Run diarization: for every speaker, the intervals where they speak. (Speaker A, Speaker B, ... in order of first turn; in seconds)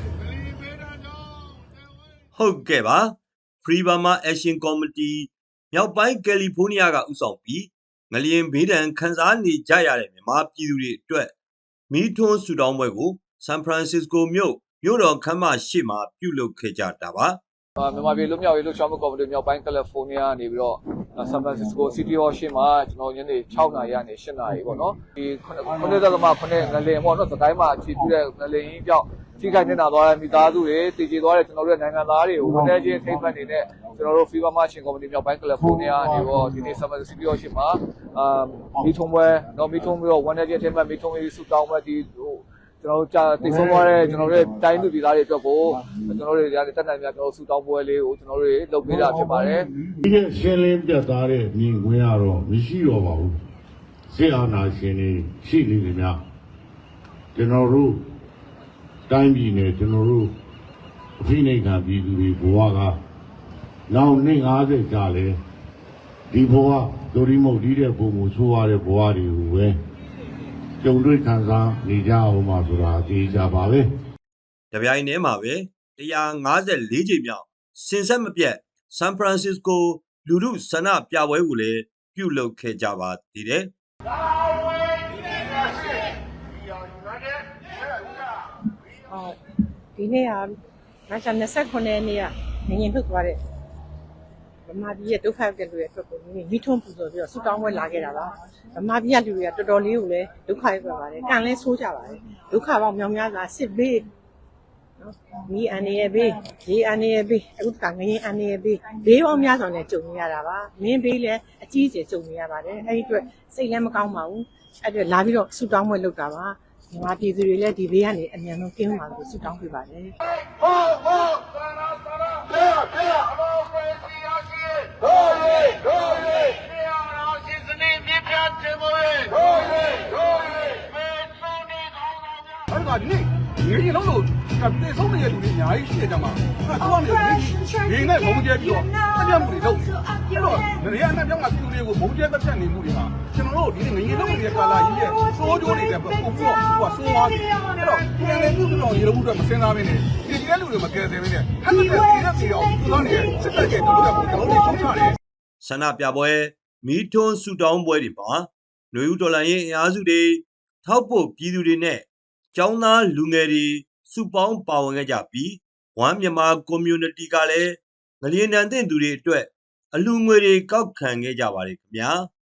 Speaker A: 2.3-11.3, 11.9-17.4, 74.7-83.7, 155.6-172.3
Speaker B: 17.8-49.7
Speaker C: 50.0-53.4, 54.1-56.2, 57.3-58.0, 59.1-60.3, 61.2-63.0, 63.9-65.4, 66.3-69.8, 70.8-73.9
Speaker D: 90.0-90.5, 91.1-93.4, 94.7-104.1, 105.0-120.1
Speaker E: 128.4-130.3, 132.7-155.2